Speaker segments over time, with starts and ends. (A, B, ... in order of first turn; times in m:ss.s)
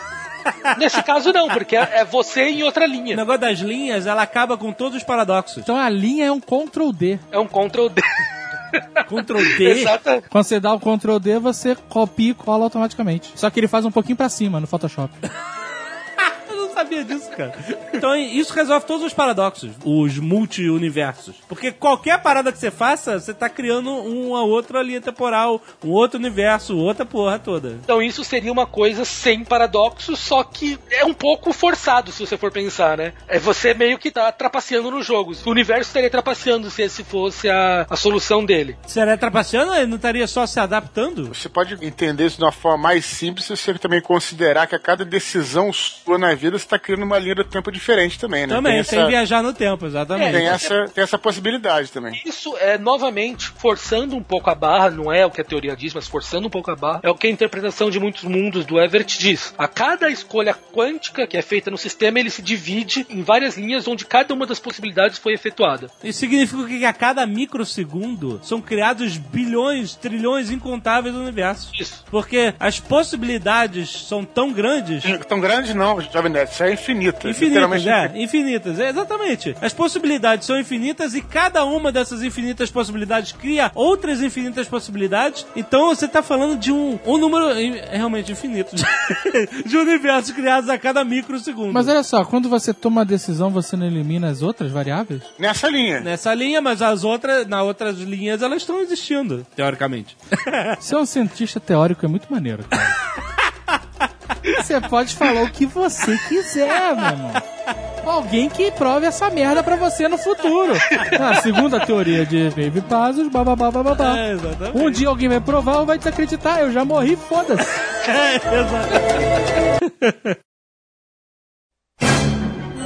0:00.7-0:03.2 A
0:03.1-0:05.7 B
0:05.6-0:07.2 C
0:07.3-0:08.0 A
0:08.7-0:10.2 A
0:09.1-0:09.9 B
0:10.3-0:15.1 C
0:16.2-0:27.8 B
0:27.9-0:38.8 A
0:38.9-0:41.3 B
0:41.3-0:49.1 D
0:48.5-0:50.6 B
0:50.1-0:50.7 A
0:50.2-0:52.2 D
0:52.2-1:05.9 A
1:06.0-1:15.1 B
1:11.7-1:12.0 A
1:15.0-1:18.1 D
1:17.2-1:31.9 B
1:31.7-1:35.3 C
1:35.4-1:36.1 D
1:36.0-1:40.8 B
1:40.8-1:42.9 C
1:44.5-1:47.4 C
1:48.0-1:54.2 C
1:50.9-1:51.2 A
1:53.9-1:55.0 B
1:54.7-1:57.7 C
1:58.0-1:59.2 B
1:59.8-2:00.3 B